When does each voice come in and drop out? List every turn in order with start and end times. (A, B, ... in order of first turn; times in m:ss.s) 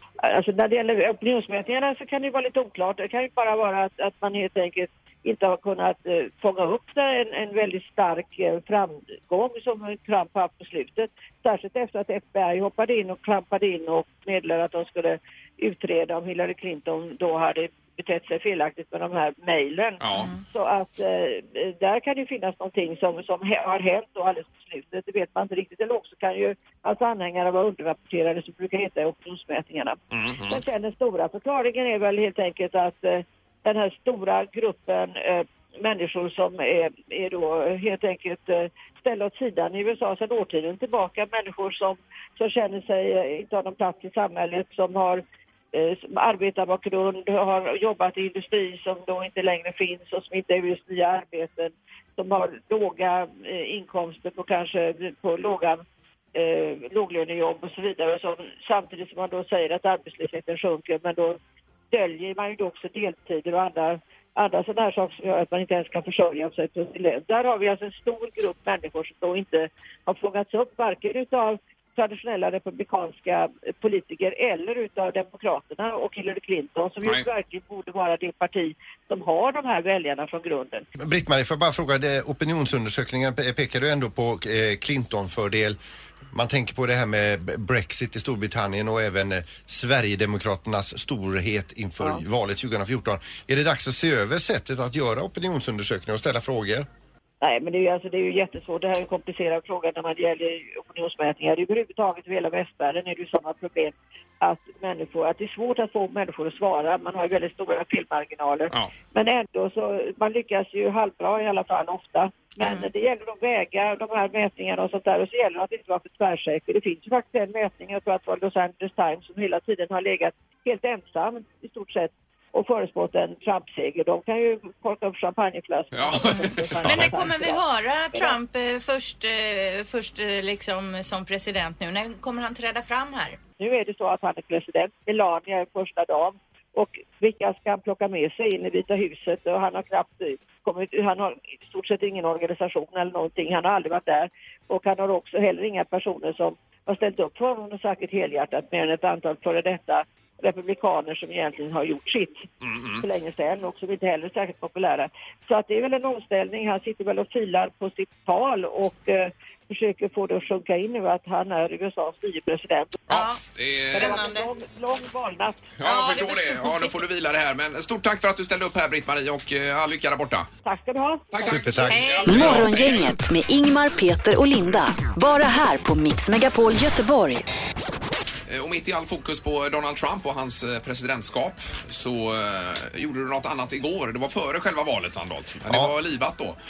0:00.2-0:45.2 A
0:20.0-0:20.3 B
0:20.1-0:20.4 C
0:30.1-0:30.6 B
0:45.7-1:01.4 A
1:01.9-1:20.9 A
1:21.0-1:25.8 D
1:26.3-1:36.9 D
1:37.4-2:08.4 A
1:52.6-1:52.9 C
2:05.9-2:07.1 B
2:06.8-2:13.4 C
2:13.6-2:32.4 A
2:32.6-2:33.0 B
2:33.0-2:43.0 A
2:43.1-2:43.4 C
2:43.1-2:44.2 B
2:43.9-2:44.5 C
2:43.9-2:45.7 A
2:45.8-2:50.5 B
2:45.8-2:47.0 C
2:50.6-2:51.4 A
2:51.3-2:53.2 B
2:51.4-2:52.6 D
2:51.9-2:52.7 C
2:52.3-2:57.4 E
2:58.5-3:06.6 B
3:05.7-3:06.0 D